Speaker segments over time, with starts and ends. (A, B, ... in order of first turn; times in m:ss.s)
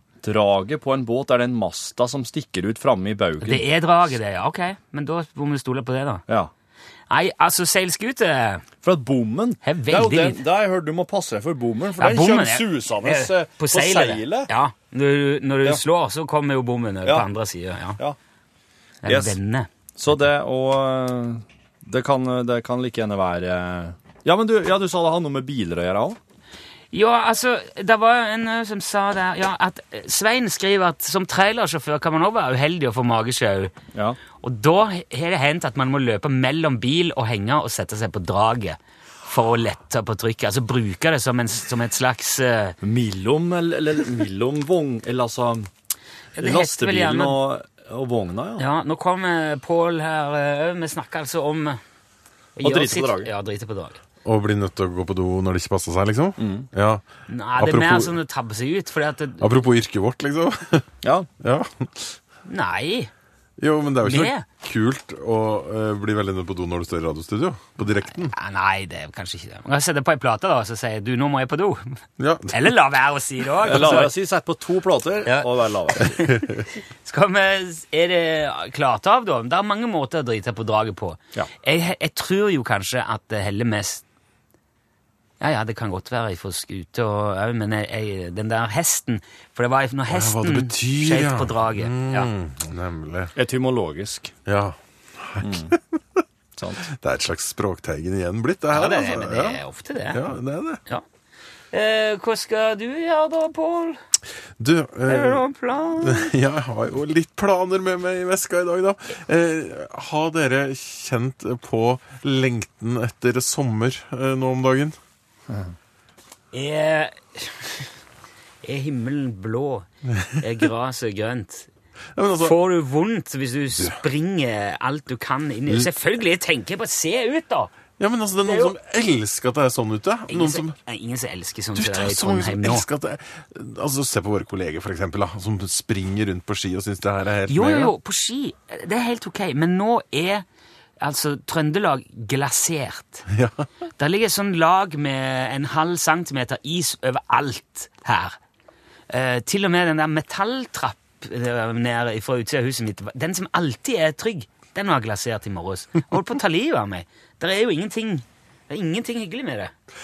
0:00.2-0:03.6 A
0:03.4-0:06.2 B
0:07.1-0:08.6 B
0:08.8-0:14.5 A
0:09.6-0:10.4 B
0:12.0-0:18.0 B
0:19.0-0:19.7 B
0:19.0-0:19.4 A
0:19.9-0:26.2 A
0:26.9-0:33.7 B
0:34.4-0:42.8 B
0:42.8-0:45.7 A
0:46.3-0:47.4 B
0:46.4-0:48.6 A
0:48.6-0:51.8 B
0:52.6-0:54.0 B
0:52.6-0:53.3 A
0:54.2-0:57.0 C
0:56.4-0:56.7 A
0:57.3-0:59.4 B
0:57.6-0:58.1 C
0:59.4-1:00.8 C
1:01.0-1:01.3 A
1:01.4-1:02.0 C
1:02.4-1:03.1 B
1:03.6-1:08.3 C
1:04.0-1:04.4 B
1:08.1-1:14.1 B
1:12.2-1:12.7 C
1:13.6-1:16.2 A
1:15.2-1:16.4 B
1:17.0-1:24.0 B
1:25.4-1:32.3 B
1:30.1-1:33.3 C
1:33.3-1:34.3 A
1:34.4-1:35.8 C
1:35.4-1:35.7 A
1:36.6-1:36.8 A
1:36.7-1:40.8 C
1:38.7-1:40.2 B
1:41.7-1:44.0 B
1:44.6-1:45.4 C
1:45.0-1:46.3 B
1:46.0-1:55.0 C
1:56.5-1:57.9 B
1:58.6-2:01.7 B
2:02.2-2:02.5 C
2:02.4-2:07.7 B
2:08.0-2:10.8 C
2:08.4-2:08.7 B
2:10.3-2:12.8 B
2:11.7-2:17.9 C
2:17.5-2:20.4 B
2:21.0-2:23.3 B
2:23.3-2:23.6 C
2:24.0-2:28.4 B
2:29.1-2:39.7 B